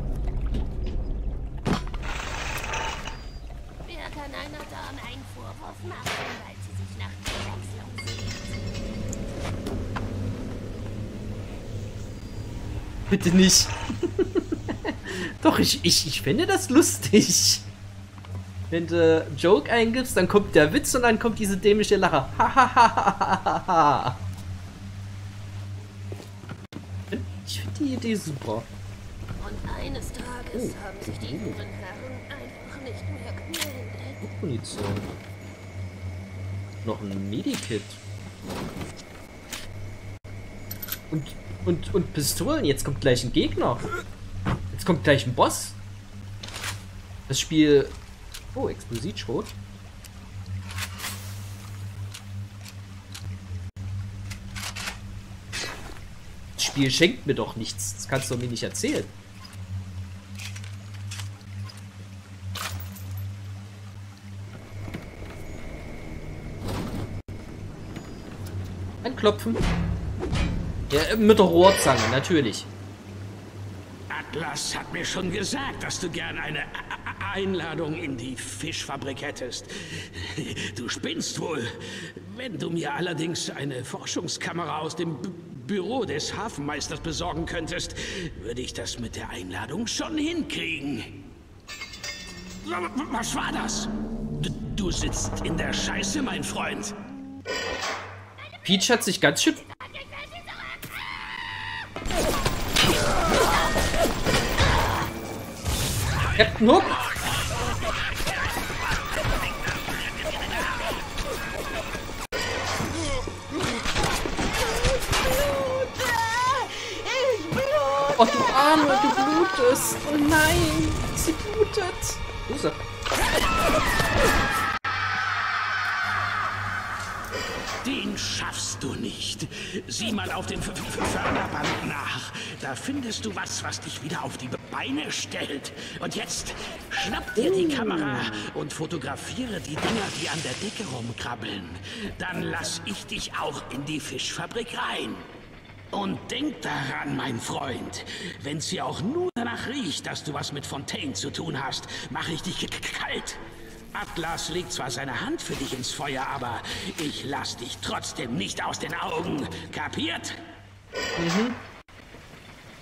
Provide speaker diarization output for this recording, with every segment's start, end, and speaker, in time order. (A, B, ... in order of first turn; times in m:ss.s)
0:03.8-0:08.6 A
0:13.1-0:17.7 B
0:18.7-0:24.2 B
0:27.1-0:28.7 B
0:29.4-0:34.2 A
0:30.5-0:31.6 B
0:34.2-0:35.1 B
0:36.8-0:38.0 B
0:41.1-0:43.9 B
0:44.7-0:45.8 B
0:47.3-0:48.0 B
0:48.5-0:49.6 B
0:56.6-0:59.1 B
1:09.0-1:09.6 B
1:10.9-1:12.7 B
1:14.1-1:31.1 C
1:32.6-1:36.9 C
1:38.6-1:39.6 B
1:46.2-1:47.1 C
1:46.4-1:47.0 B
1:50.2-1:50.7 C
1:58.1-2:02.8 B
2:07.8-2:25.3 C
2:17.5-2:18.0 B
2:25.9-2:33.4 C
2:33.9-2:40.3 C
2:41.2-2:41.6 B